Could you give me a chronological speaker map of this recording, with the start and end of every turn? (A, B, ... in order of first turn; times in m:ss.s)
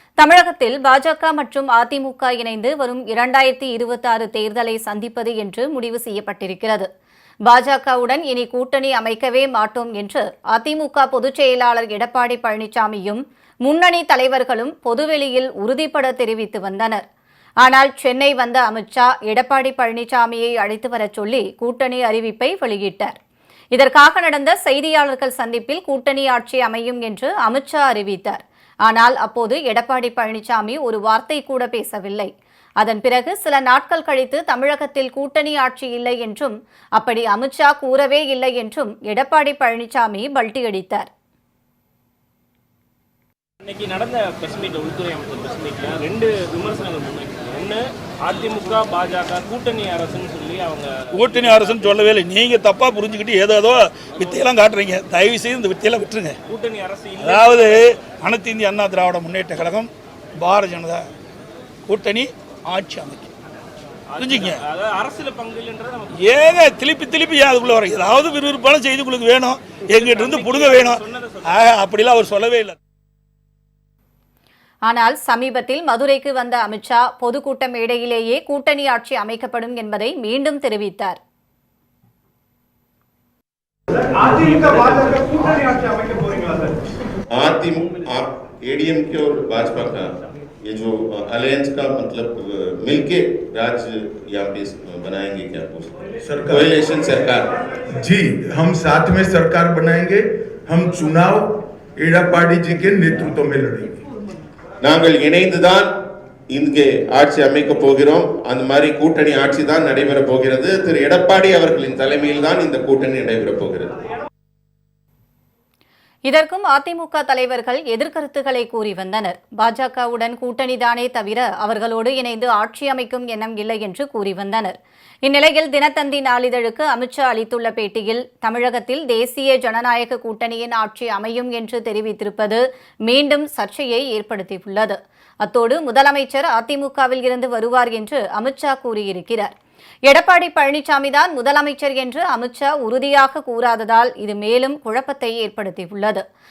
0:00.2-0:06.9 A
0:07.5-0:17.0 A
0:17.6-0:23.2 A
0:23.7-0:41.1 A
0:43.6-0:51.9 B
0:51.1-0:56.4 C
0:56.5-0:57.8 B
0:57.2-1:01.1 C
1:01.9-1:03.3 C
1:04.1-1:06.2 B
1:04.2-1:04.6 C
1:06.2-1:12.8 C
1:09.9-1:11.6 B
1:14.9-1:21.2 A
1:27.3-1:37.5 D
1:36.2-1:36.7 E
1:38.0-1:44.0 E
1:44.8-1:45.9 D
1:46.5-1:53.9 D
1:56.3-2:19.5 A
2:20.1-2:26.2 A